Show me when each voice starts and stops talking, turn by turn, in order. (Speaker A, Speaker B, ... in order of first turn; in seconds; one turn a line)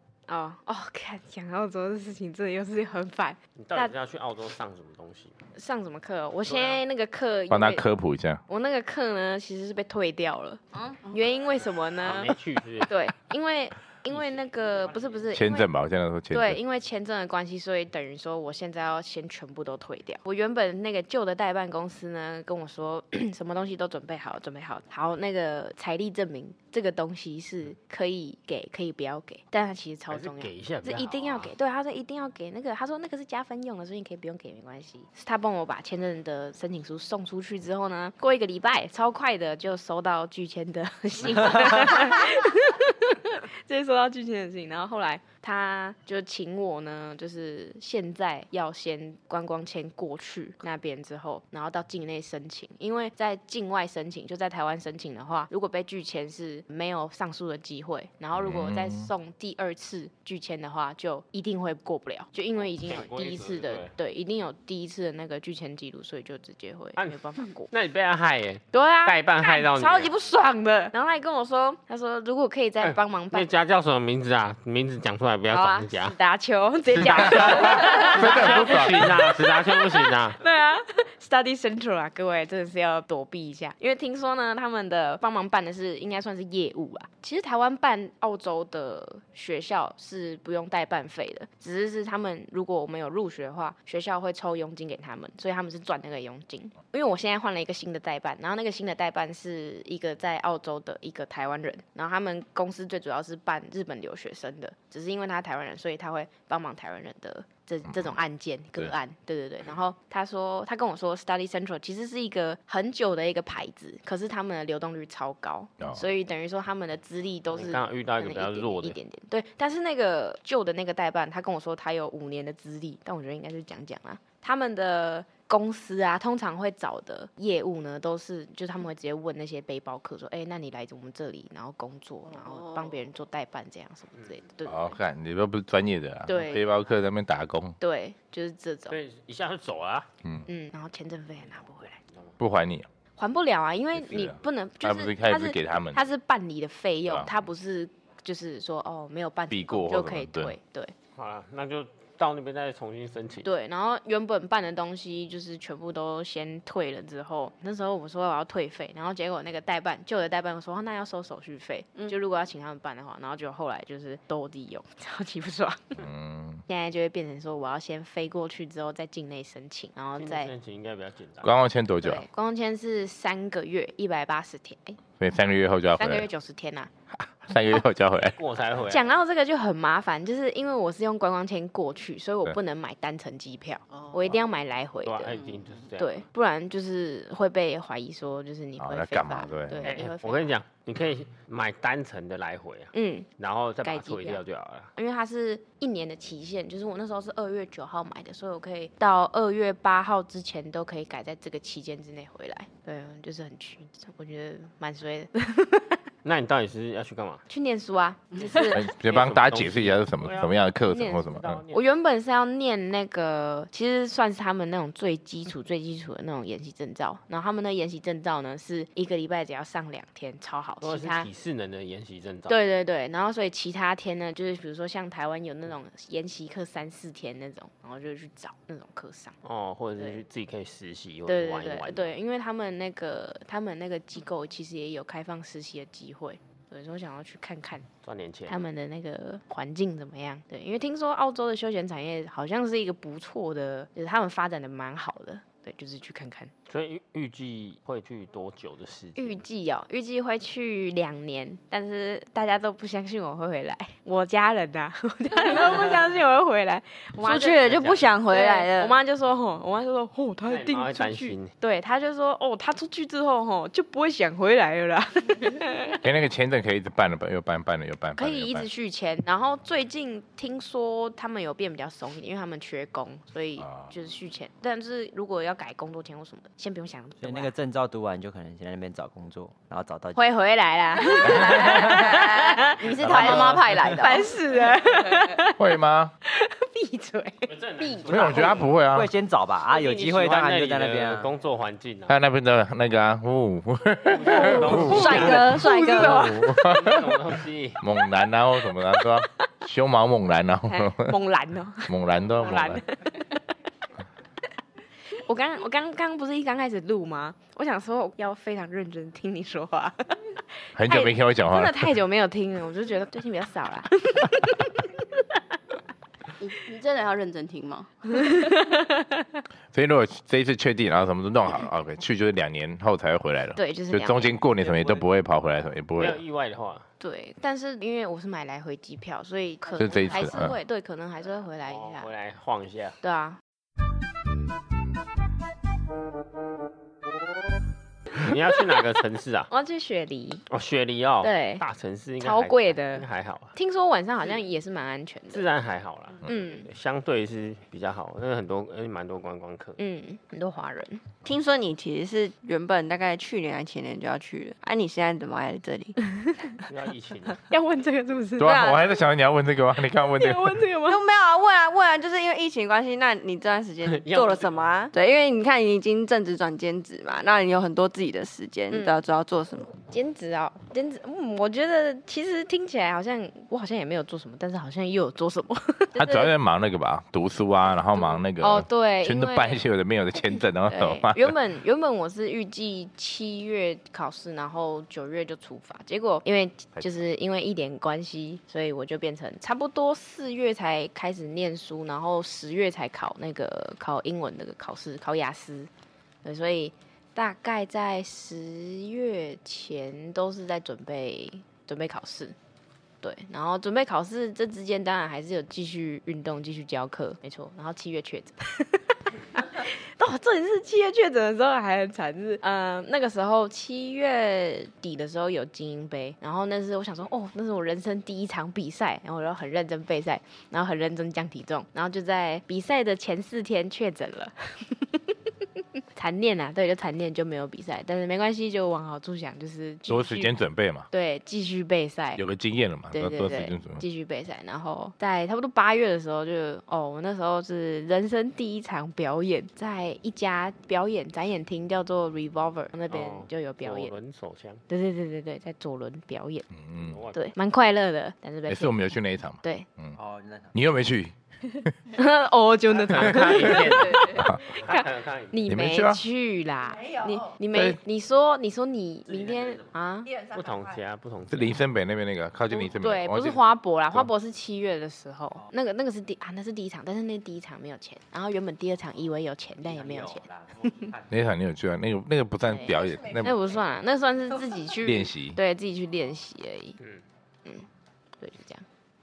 Speaker A: 0.3-3.9
Speaker B: 3.6-5.3
Speaker A: 5.5-7.8
Speaker B: 6.5-6.8
Speaker C: 7.5-8.4
Speaker A: 8.5-15.7
Speaker B: 12.0-12.9
Speaker B: 14.1-15.3
Speaker C: 15.3-16.6
Speaker A: 16.3-67.7
Speaker B: 30.1-31.5
Speaker C: 58.3-59.1
Speaker B: 62.8-63.9
Speaker B: 67.0-70.1
Speaker A: 68.7-73.5
Speaker B: 72.8-76.1
Speaker A: 75.5-134.9
Speaker B: 77.0-80.4
Speaker C: 77.1-79.1
Speaker C: 107.9-108.2
Speaker C: 115.8-116.0
Speaker B: 117.5-119.0
Speaker C: 134.6-137.8
Speaker A: 136.2-136.7
Speaker A: 137.8-139.0
Speaker B: 138.9-140.1
Speaker A: 140.5-142.0
Speaker C: 142.4-142.9
Speaker A: 143.2-150.9
Speaker C: 143.9-146.0
Speaker C: 149.5-150.6
Speaker B: 151.2-153.5
Speaker A: 153.4-166.0
Speaker C: 166.0-166.6
Speaker A: 166.7-170.5
Speaker B: 170.2-171.5
Speaker C: 171.4-172.2
Speaker A: 172.0-175.0
Speaker C: 175.2-176.3
Speaker A: 176.0-176.9
Speaker C: 177.1-178.4
Speaker B: 178.3-179.1
Speaker A: 178.9-185.3
Speaker B: 185.0-186.2
Speaker A: 186.0-190.6
Speaker C: 188.8-189.9
Speaker B: 189.8-194.9
Speaker A: 192.9-193.3
Speaker A: 193.8-194.4
Speaker A: 194.9-206.0
Speaker B: 206.2-207.4
Speaker A: 207.5-208.9
Speaker B: 208.4-211.8
Speaker C: 208.7-211.6
Speaker A: 210.9-221.3
Speaker B: 220.8-222.5
Speaker A: 222.5-229.3
Speaker B: 229.4-232.1
Speaker A: 231.3-237.9
Speaker B: 238.0-238.6
Speaker A: 238.5-246.5
Speaker B: 246.7-249.4
Speaker A: 249.2-266.0
Speaker D: 257.2-258.9
Speaker B: 257.4-258.1
Speaker B: 260.4-261.5
Speaker C: 266.0-268.7
Speaker A: 268.1-277.5
Speaker C: 273.6-273.9
Speaker E: 277.2-280.3
Speaker A: 280.1-285.6
Speaker E: 281.3-281.8
Speaker F: 282.1-284.2
Speaker B: 283.1-283.6
Speaker D: 283.1-283.5
Speaker C: 285.6-286.1
Speaker A: 286.2-288.6
Speaker B: 287.5-288.7
Speaker C: 288.1-289.1
Speaker E: 288.9-291.3
Speaker B: 289.7-292.2
Speaker C: 292.1-295.3
Speaker B: 294.0-297.8
Speaker A: 294.3-296.6
Speaker D: 294.4-296.4
Speaker C: 296.0-297.1
Speaker C: 297.8-301.1
Speaker A: 300.7-303.4
Speaker C: 301.9-302.8
Speaker A: 305.2-315.2
Speaker C: 310.7-312.0
Speaker F: 316.4-317.9
Speaker A: 318.1-319.2
Speaker C: 319.7-326.2
Speaker A: 323.6-324.3
Speaker B: 324.5-325.1
Speaker B: 326.0-326.9
Speaker A: 327.0-332.1
Speaker C: 329.8-330.6
Speaker B: 331.7-333.0
Speaker A: 333.0-333.4
Speaker B: 338.2-339.5
Speaker A: 339.5-340.4
Speaker B: 340.5-343.5
Speaker A: 341.2-341.6
Speaker A: 342.2-345.5
Speaker B: 345.3-349.8
Speaker A: 346.2-346.7
Speaker A: 349.8-351.0
Speaker D: 351.2-356.0
Speaker A: 356.1-356.6
Speaker B: 356.7-357.4
Speaker A: 357.5-358.9
Speaker C: 358.4-360.6
Speaker A: 360.2-361.0
Speaker D: 360.9-369.7
Speaker B: 363.9-364.7
Speaker A: 369.9-376.3
Speaker C: 375.9-381.4
Speaker A: 377.9-379.6
Speaker A: 380.3-395.7
Speaker A: 396.2-402.3
Speaker A: 403.0-425.1
Speaker A: 425.9-430.3
Speaker C: 429.9-430.9
Speaker A: 430.9-432.2
Speaker C: 432.1-433.8
Speaker A: 432.9-443.9
Speaker B: 442.9-444.6
Speaker A: 444.7-446.5
Speaker C: 446.5-447.0
Speaker B: 446.8-447.3
Speaker A: 447.1-448.7
Speaker C: 448.5-450.0
Speaker E: 449.9-450.5
Speaker C: 450.5-451.1
Speaker A: 451.9-460.1
Speaker B: 452.8-455.4
Speaker C: 454.1-454.4
Speaker C: 455.5-456.0
Speaker C: 457.5-457.8
Speaker E: 459.1-459.7
Speaker B: 460.2-461.6
Speaker C: 461.3-463.4
Speaker A: 462.5-470.2
Speaker E: 469.6-471.2
Speaker C: 471.1-473.4
Speaker A: 472.5-476.8
Speaker C: 474.8-475.4
Speaker A: 478.2-478.6